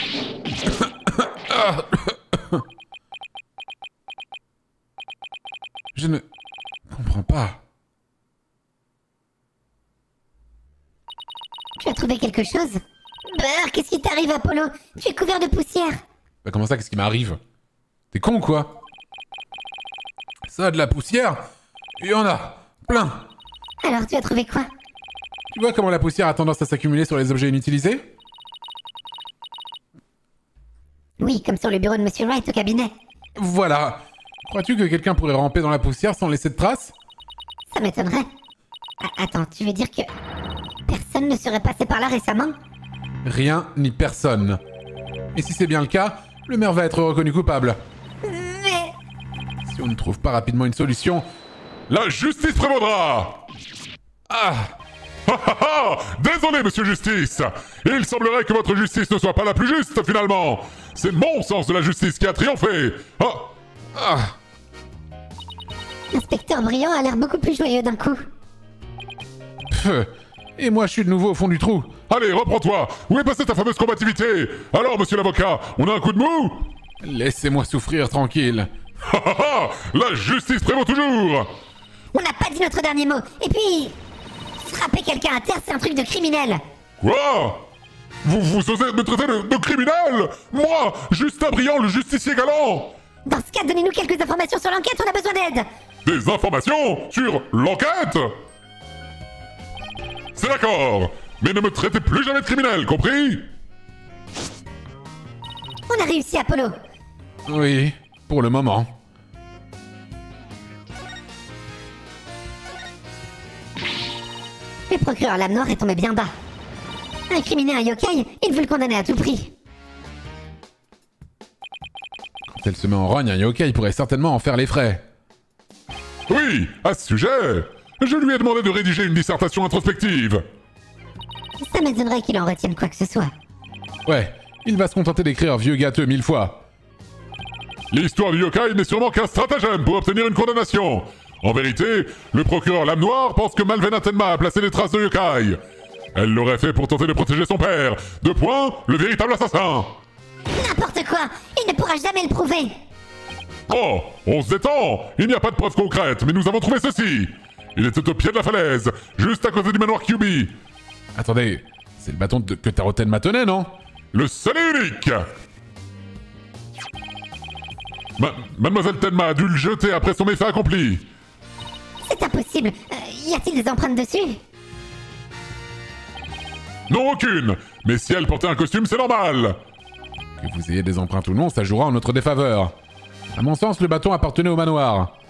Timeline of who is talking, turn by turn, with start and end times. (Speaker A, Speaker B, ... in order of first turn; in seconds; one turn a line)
Speaker A: 0.8-2.6
Speaker A: 5.9-6.2
Speaker A: 6.9-7.6
Speaker B: 11.8-16.0
Speaker A: 16.4-17.4
Speaker A: 18.1-18.8
Speaker A: 20.5-21.4
Speaker A: 22.0-23.2
Speaker B: 23.8-24.7
Speaker A: 25.5-28.0
Speaker B: 31.2-32.9
Speaker A: 33.4-36.9
Speaker B: 37.7-38.3
Speaker B: 39.0-40.1
Speaker B: 40.9-42.5
Speaker A: 43.2-44.6
Speaker A: 45.3-47.8
Speaker B: 48.2-48.9
Speaker A: 49.6-51.2
Speaker C: 51.9-53.4
Speaker A: 54.3-54.7
Speaker C: 55.3-63.5
Speaker A: 63.9-64.3
Speaker B: 66.1-68.2
Speaker A: 69.7-71.9
Speaker C: 72.1-76.7
Speaker A: 77.0-78.7
Speaker C: 79.0-81.5
Speaker B: 82.1-83.9
Speaker B: 84.6-86.6
Speaker C: 87.0-87.6
Speaker C: 88.2-92.9
Speaker B: 93.2-95.7
Speaker C: 96.0-98.3
Speaker C: 100.3-103.5
Speaker B: 105.9-106.8
Speaker A: 107.5-108.9
Speaker B: 114.9-116.3
Speaker B: 117.3-119.5
Speaker A: 122.5-125.0
Speaker C: 126.3-130.4
Speaker B: 131.6-133.3
Speaker A: 134.1-136.6
Speaker C: 137.9-145.6
Speaker C: 146.1-149.9
Speaker B: 150.5-152.8
Speaker C: 153.7-160.5
Speaker A: 161.1-163.7
Speaker C: 164.1-165.3
Speaker C: 168.2-171.1
Speaker B: 172.0-174.4
Speaker C: 176.9-179.6
Speaker A: 180.4-182.7
Speaker A: 183.3-185.1